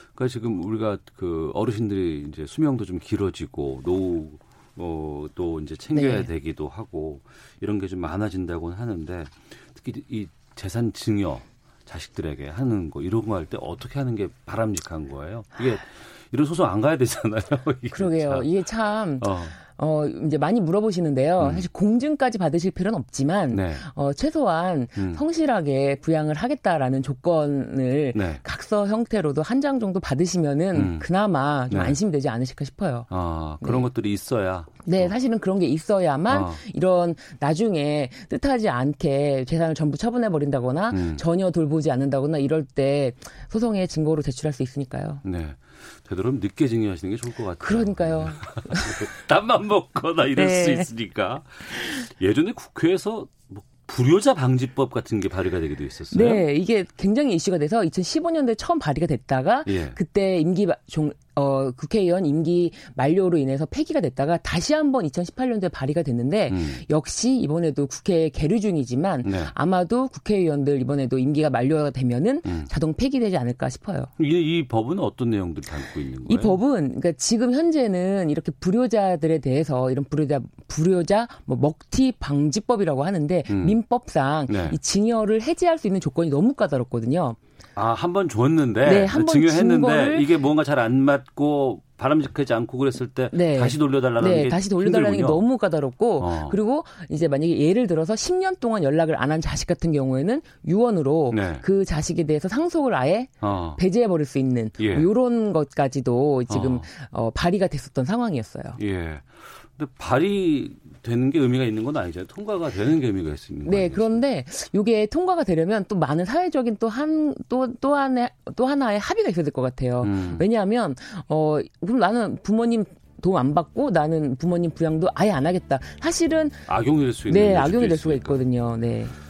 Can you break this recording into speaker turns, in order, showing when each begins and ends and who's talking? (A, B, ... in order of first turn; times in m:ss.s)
0:00.2-0:18.5 A
0:05.9-0:06.3 B
0:17.9-0:33.1 B
0:19.2-0:19.6 A
0:21.4-0:21.7 A
0:23.5-0:23.9 A
0:25.0-0:25.2 A
0:28.1-0:28.4 A
0:30.7-0:31.1 A
0:31.7-0:32.0 A
0:33.1-0:35.2 A
0:33.6-0:33.9 B
0:34.8-0:45.2 B
0:36.3-0:36.6 A
0:40.9-0:41.2 A
0:45.2-0:56.4 A
0:47.6-0:49.0 B
0:50.4-0:50.9 B
0:56.1-1:14.1 B
0:59.7-1:00.0 A
1:06.5-1:06.8 A
1:09.2-1:09.6 A
1:12.4-1:12.7 A
1:14.2-1:16.6 A
1:16.3-1:27.4 B
1:23.5-1:23.8 A
1:24.5-1:24.8 A
1:27.8-1:35.5 A
1:28.8-1:30.3 B
1:33.3-1:48.8 B
1:36.2-1:36.6 A
1:41.3-1:41.7 A
1:43.4-1:43.8 A
1:44.8-1:45.1 A
1:46.5-1:46.9 A
1:48.8-1:54.2 A
1:53.7-2:06.7 B
2:00.0-2:00.5 A
2:06.7-2:08.5 A
2:07.3-2:09.2 B